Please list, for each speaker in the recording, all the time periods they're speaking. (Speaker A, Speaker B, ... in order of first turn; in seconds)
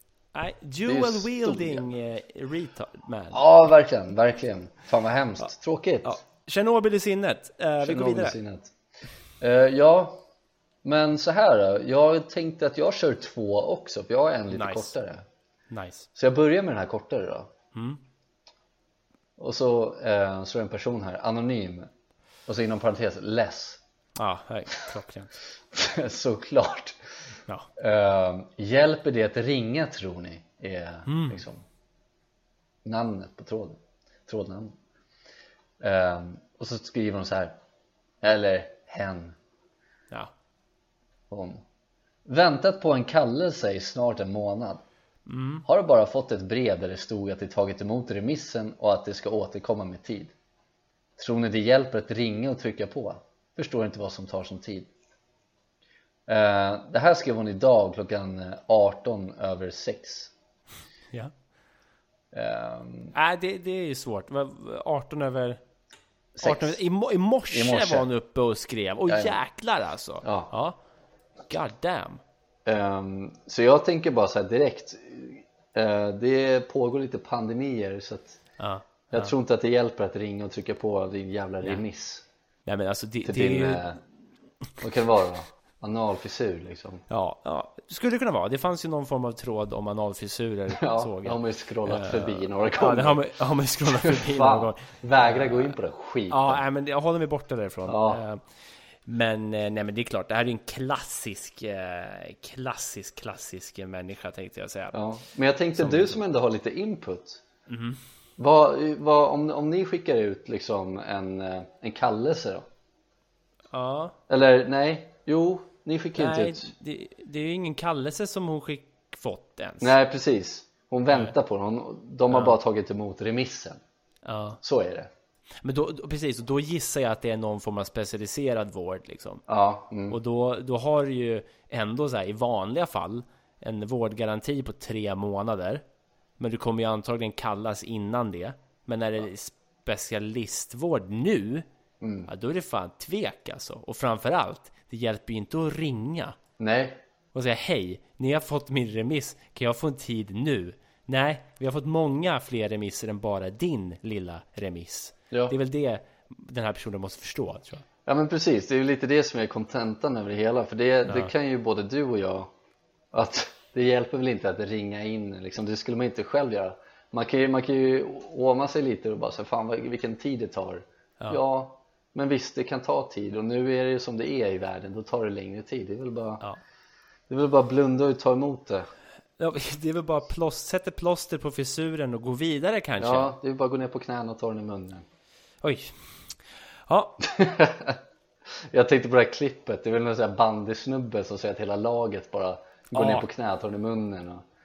Speaker A: 0.3-3.4, 6.0-8.4, 14.5-14.9, 15.7-16.1, 17.7-18.0, 24.2-25.3, 31.1-31.4, 45.2-45.6, 63.1-65.6, 66.4-70.8, 71.5-72.2, 78.6-79.3, 82.7-84.0, 87.1-95.7, 96.3-98.4, 99.0-105.0, 105.8-106.2, 107.7-108.0, 113.7-114.1, 116.2-119.9, 122.3-122.6, 124.2-124.6, 125.6-129.4, 130.1-135.8, 136.4-141.7, 142.3-146.4, 147.3-157.8, 161.1-161.3, 179.4-183.3, 185.6-185.9, 186.9-187.2, 192.9-193.2
Speaker B: 0.8-1.8, 3.3-6.2, 7.8-8.7, 9.4-10.2, 10.8-15.2, 16.1-17.5, 19.4-21.9, 22.5-23.8, 25.7-27.0, 27.8-31.6, 32.8-34.7, 35.8-37.5, 38.2-39.3, 41.3-41.6, 42.2-44.8, 45.6-50.3, 51.2-54.9, 56.3-60.3, 62.3-63.1, 66.3-66.8, 67.5-68.1, 69.1-69.4, 70.2-70.5, 72.7-78.4, 79.1-82.2, 83.2-84.0, 84.8-87.0, 90.7-93.2, 93.9-96.6, 97.8-98.2, 104.9-107.4, 108.4-112.7, 114.3-116.7, 119.8-123.8, 124.6-125.1, 129.5-130.2, 142.0-142.3, 146.6-147.0, 158.1-162.5, 163.1-176.4, 177.3-178.9, 183.0-185.0, 187.2-188.0, 188.6-194.4